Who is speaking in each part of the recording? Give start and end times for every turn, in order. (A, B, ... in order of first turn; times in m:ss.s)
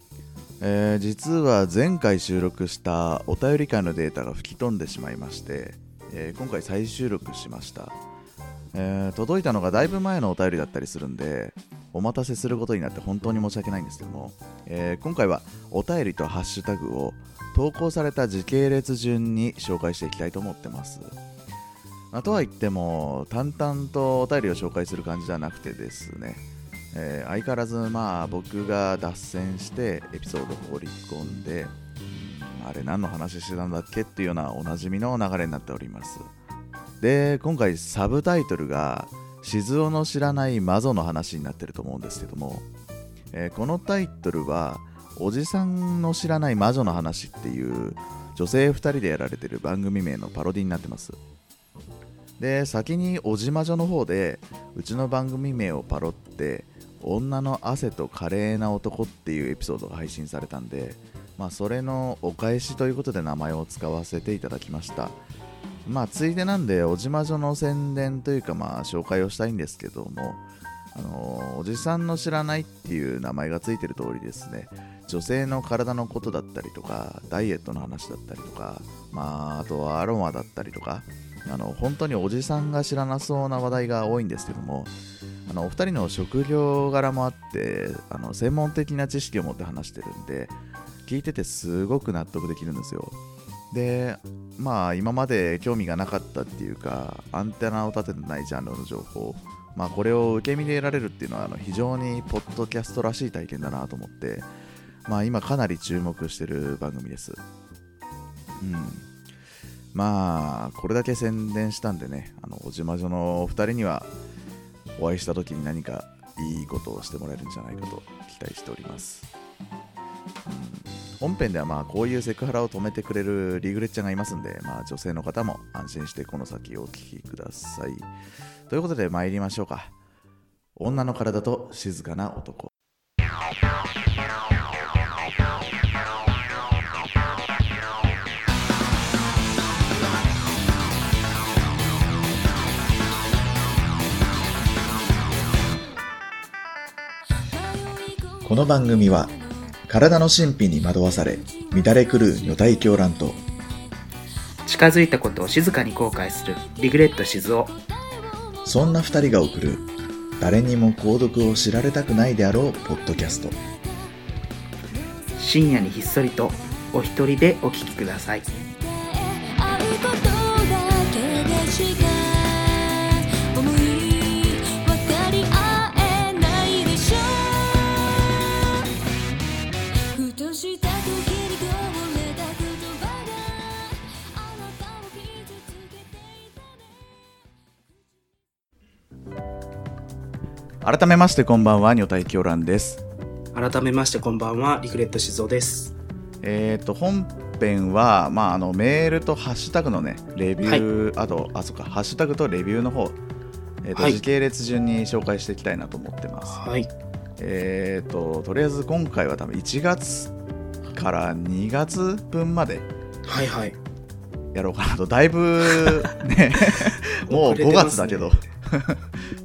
0:00.6-0:08.0 A
0:08.7-0:21.1 A
0:22.1-0:36.2 A
0:37.0-0:42.6 A
0:43.3-0:51.2 A
0:52.4-1:05.2 A
1:05.8-1:10.4 A
1:10.9-1:24.9 A
1:25.5-1:30.5 A
1:31.0-1:33.2 A
1:33.7-1:44.5 A
1:45.0-1:47.4 A
1:48.6-1:49.1 A
1:49.9-1:54.1 A
1:55.0-1:59.3 A
2:00.5-2:08.1 A
2:08.7-2:09.9 A
2:10.8-2:12.7 A
2:27.5-2:29.5 B
2:28.4-2:29.3 A
2:29.9-2:33.4 A
2:34.6-2:37.7 C
2:38.1-2:39.2 B
2:38.6-2:39.8 A
2:40.4-2:43.5 A
2:43.7-2:44.1 B
2:45.3-2:45.5 B
2:45.4-2:48.4 C
2:48.5-2:58.9 B
3:00.1-3:06.8 B
3:10.8-3:13.0 A
3:13.5-3:15.9 C
3:16.4-3:23.2 A
3:23.8-3:26.6 A
3:26.5-3:26.9 C
3:27.4-3:30.3 A
3:30.9-3:32.9 A
3:33.2-3:33.8 C
3:34.5-3:39.0 A
3:36.7-3:38.3 C